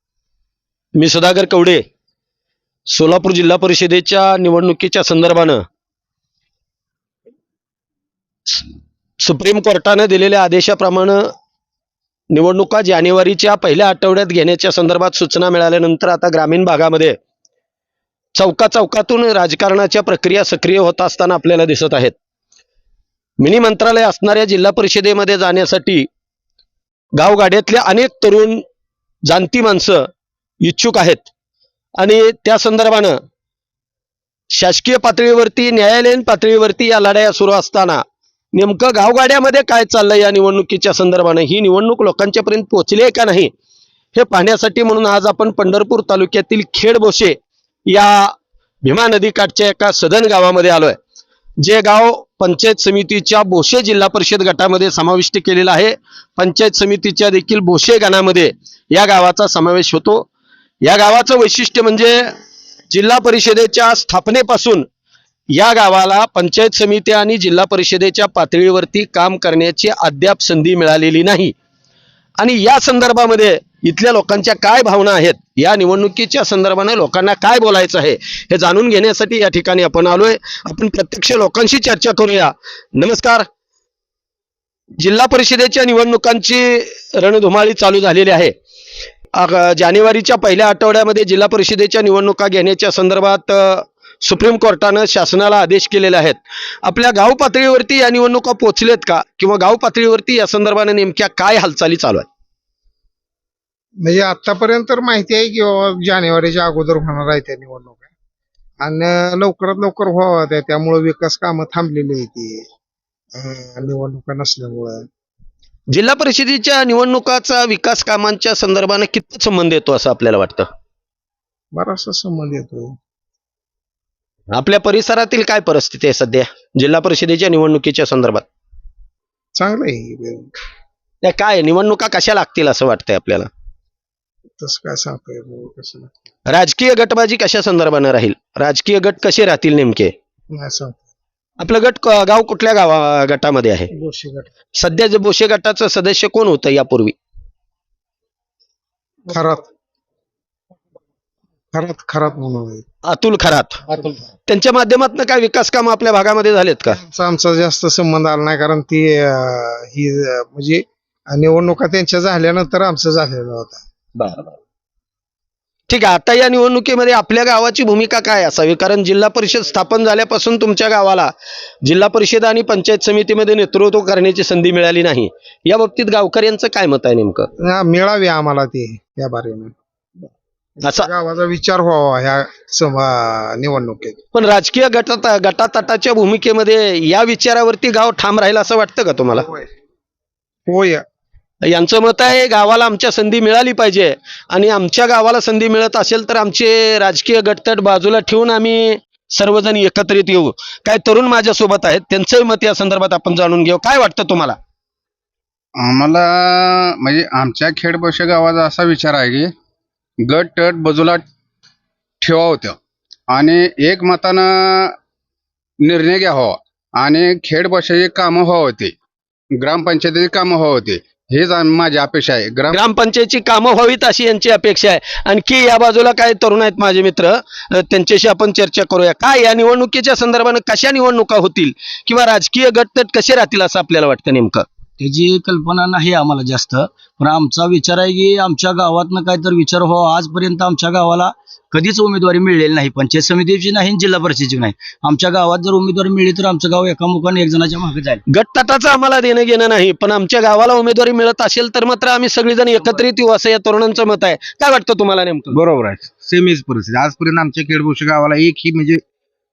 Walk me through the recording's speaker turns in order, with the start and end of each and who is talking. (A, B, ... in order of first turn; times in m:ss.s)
0:01.0-0:01.8 A
0:02.9-0:05.6 A
0:09.2-0:11.2 A
0:12.3-0:17.2 A
0:18.4-0:22.1 A
0:23.4-0:26.1 A
0:27.2-0:28.6 A
0:29.3-0:30.0 A
0:30.6-0:31.3 A
0:32.0-0:33.2 A
0:34.5-0:38.0 A
0:38.5-0:43.5 A
0:44.1-0:47.4 A
0:47.9-0:51.0 A
0:51.6-1:00.3 A
1:00.8-1:02.2 A
1:02.9-1:04.8 A
1:05.5-1:11.5 A
1:12.4-1:23.4 A
1:25.0-1:28.5 A
1:29.3-1:42.3 A
1:44.0-1:48.1 B
1:48.8-1:52.6 B
1:53.3-1:55.1 B
1:55.9-2:00.7 A
2:01.7-2:02.9 B
2:04.5-2:08.5 A
2:09.6-2:10.5 B
2:11.2-2:13.5 A
2:14.6-2:16.1 B
2:16.5-2:20.1 A
2:20.5-2:21.0 B
2:21.6-2:23.9 A
2:23.9-2:24.5 B
2:24.8-2:27.2 A
2:29.3-2:29.7 B
2:31.7-2:32.8 B
2:33.1-2:33.8 A
2:33.9-2:34.3 B
2:34.5-2:37.0 A
2:37.0-2:43.8 B
2:45.9-2:51.3 A
2:51.8-2:57.5 A
2:57.6-2:59.7 B
3:00.8-3:01.1 A
3:00.8-3:04.2 B
3:04.3-3:09.5 A
3:10.7-3:11.0 B
3:11.7-3:24.6 A
3:25.8-3:29.5 C
3:30.3-3:31.2 C
3:32.2-3:32.8 C
3:33.3-3:35.0 C
3:35.8-3:38.9 C
3:39.6-3:42.8 C
3:42.7-3:54.6 A
3:55.0-4:08.2 D
4:08.3-4:15.6 A
4:15.5-4:19.0 E